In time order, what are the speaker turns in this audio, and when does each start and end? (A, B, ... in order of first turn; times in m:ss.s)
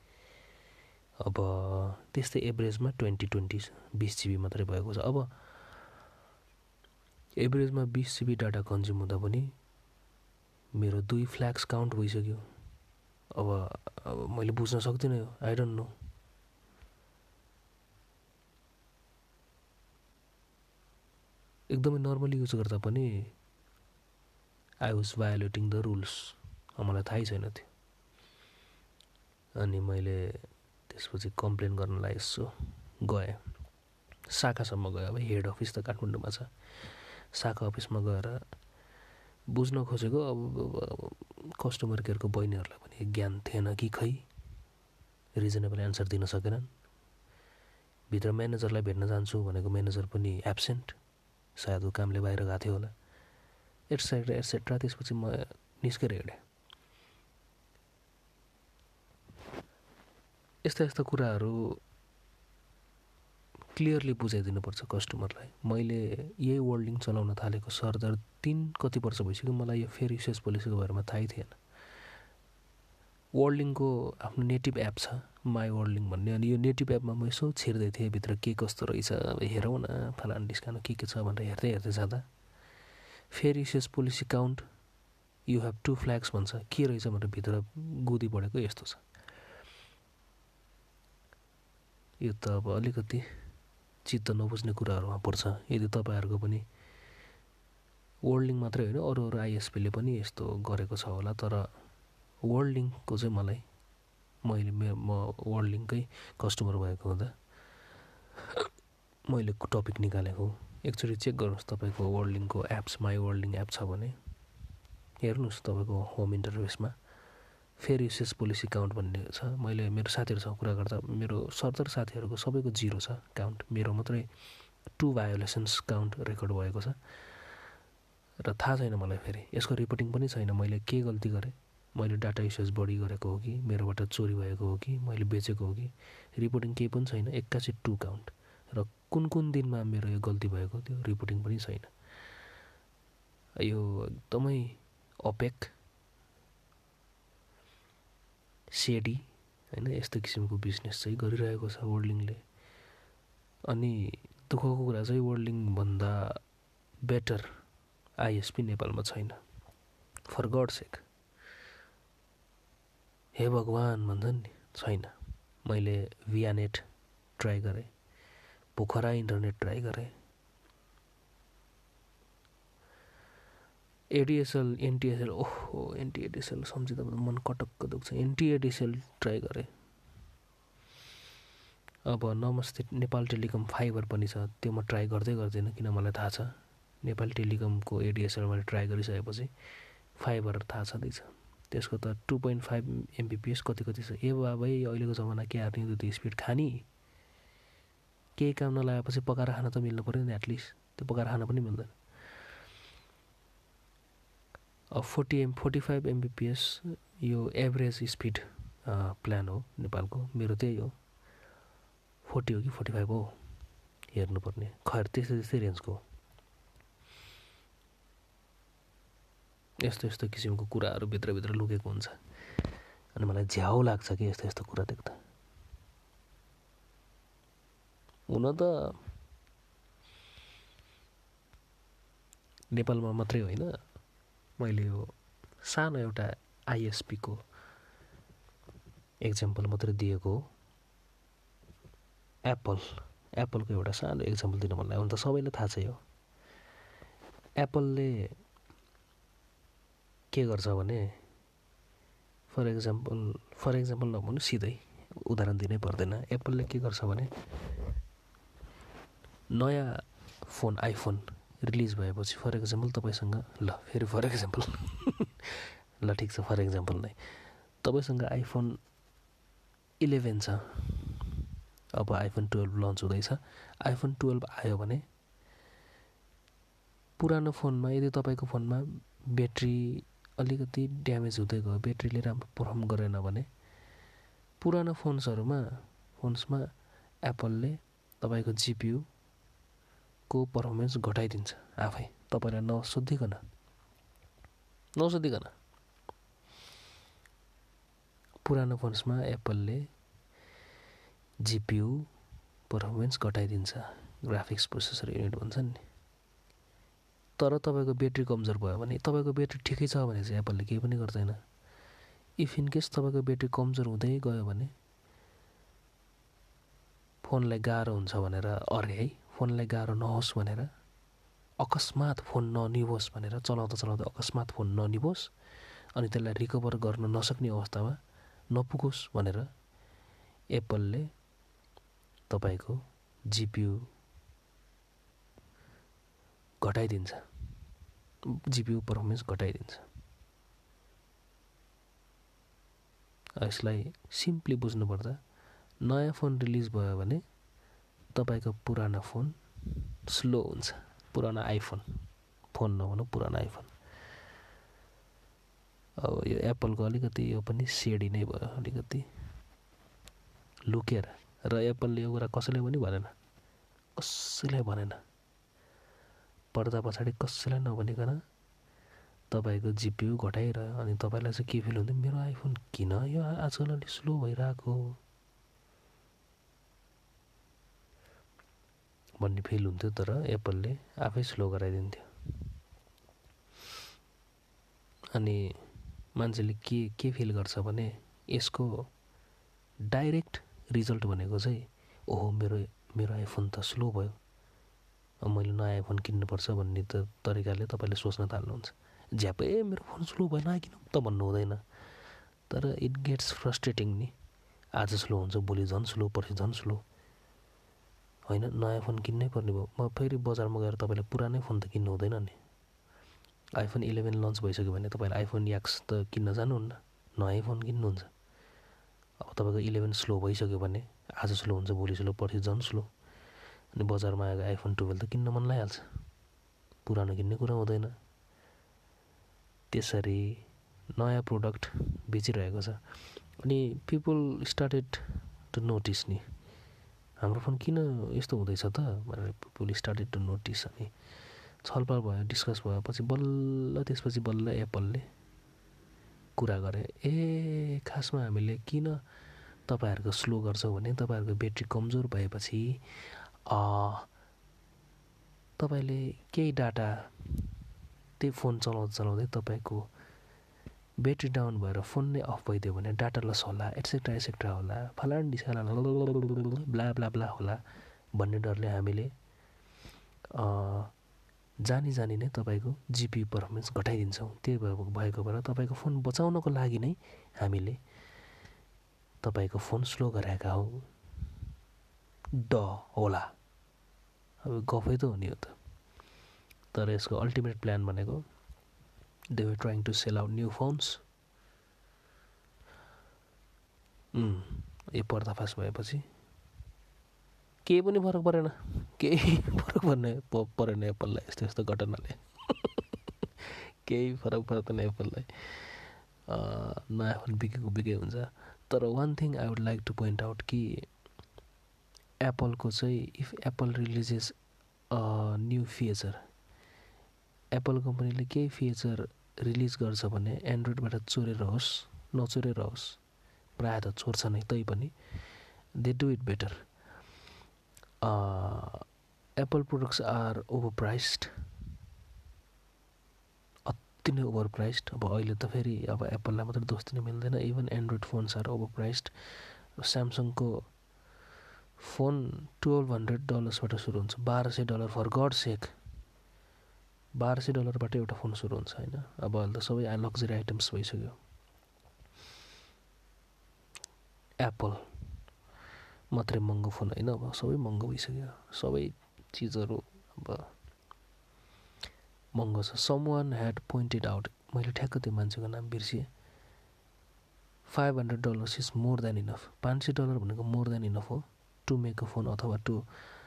0:01.2-0:05.3 A
0:07.4-0:09.5 A
0:10.8-0:12.4 A
0:13.4-0:15.9 A
0:21.7-0:23.3 A
0:24.8-0:27.7 A
0:29.6-0:33.4 A
0:34.3-0:36.5 A
0:37.3-0:38.4 A
0:39.5-0:44.2 A
0:45.4-0:46.7 A
0:48.1-0:50.9 A
0:51.6-0:52.9 A
0:53.9-0:56.4 A
1:00.6-1:01.8 A
1:03.7-1:11.6 A
1:13.4-1:22.2 A
1:23.3-1:24.6 A
1:25.5-1:29.0 A
1:32.2-1:33.2 A
1:34.0-1:36.6 A
1:38.3-1:41.7 A
1:42.4-1:43.6 A
1:44.4-1:47.3 A
1:49.3-1:54.1 A
1:55.2-1:56.9 A
1:57.8-2:04.3 A
2:05.0-2:07.0 A
2:08.4-2:21.9 A
2:23.6-2:25.7 A
2:28.7-2:32.4 A
2:33.7-2:36.4 A
2:37.0-2:37.5 A
2:38.2-2:39.4 A
2:40.3-2:41.0 A
2:43.4-2:45.1 A
2:45.6-2:46.8 A
2:47.4-2:47.9 A
2:48.8-2:50.1 A
2:54.1-2:59.7 A
3:02.1-3:09.5 A
3:10.2-3:16.9 A
3:18.4-3:21.9 A
3:24.9-3:30.9 A
3:32.2-3:33.3 A
3:34.1-3:36.0 A
3:39.8-3:42.2 A
3:43.2-3:45.2 A
3:48.3-3:48.7 A
3:52.7-3:53.7 A
3:54.6-3:55.1 A
3:55.6-3:57.4 A
3:59.2-4:00.4 A
4:02.5-4:06.0 A
4:07.6-4:08.3 A
4:10.3-4:11.1 A
4:12.5-4:17.3 A
4:19.5-4:27.1 A
4:27.8-4:28.8 A
4:30.0-4:31.3 A
4:31.9-4:35.0 A
4:37.2-4:43.5 A
4:44.6-4:46.7 A
4:47.2-4:49.0 A
4:50.3-4:53.4 A
4:55.0-4:55.5 A
4:58.4-4:59.8 A
5:01.4-5:02.1 A
5:02.7-5:05.8 A
5:07.4-5:11.4 A
5:12.4-5:14.7 A
5:17.2-5:20.7 A
5:21.6-5:25.3 A
5:26.0-5:28.0 A
5:28.5-5:29.5 A
5:30.5-5:31.1 A
5:32.3-5:33.9 A
5:36.6-5:37.2 A
5:38.5-5:39.8 A
5:43.4-5:45.2 A
5:45.8-5:47.2 A
5:48.1-5:51.8 A
5:52.5-5:53.7 A
5:56.0-5:59.0 A
6:00.7-6:03.1 A
6:04.0-6:05.0 A
6:06.5-6:08.2 A
6:09.3-6:15.0 A
6:19.2-6:22.0 A
6:25.1-6:25.6 A
6:26.2-6:28.9 A
6:29.8-6:34.2 A
6:35.2-6:41.6 A
6:42.5-6:44.1 A
6:44.8-6:46.8 A
6:48.3-6:52.4 A
6:53.6-6:58.1 A
6:59.2-7:02.9 A
7:03.7-7:05.8 A
7:06.8-7:07.9 A
7:09.7-7:10.4 A
7:11.0-7:12.8 A
7:13.4-7:16.2 A
7:17.2-7:20.9 A
7:21.6-7:25.0 A
7:26.4-7:29.0 A
7:29.7-7:32.8 A
7:33.5-7:34.1 A
7:35.6-7:37.5 A
7:38.2-7:39.9 A
7:41.0-7:47.6 A
7:48.1-7:49.1 A
7:50.3-7:50.9 A
7:51.6-7:57.8 A
7:59.2-8:00.9 A
8:02.4-8:03.3 A
8:04.4-8:05.5 A
8:06.7-8:08.2 A
8:09.3-8:11.0 A
8:14.1-8:16.0 A
8:17.6-8:30.9 A
8:32.2-8:34.3 A
8:34.9-8:36.2 A
8:37.5-8:43.0 A
8:43.6-8:44.9 A
8:45.8-8:46.5 A
8:48.0-8:48.8 A
8:49.4-8:51.3 A
8:53.7-8:59.1 A
8:59.8-9:00.7 A
9:01.8-9:05.7 A
9:07.1-9:11.2 A
9:14.4-9:14.8 A
9:16.1-9:20.5 A
9:22.3-9:26.1 A
9:27.7-9:32.8 A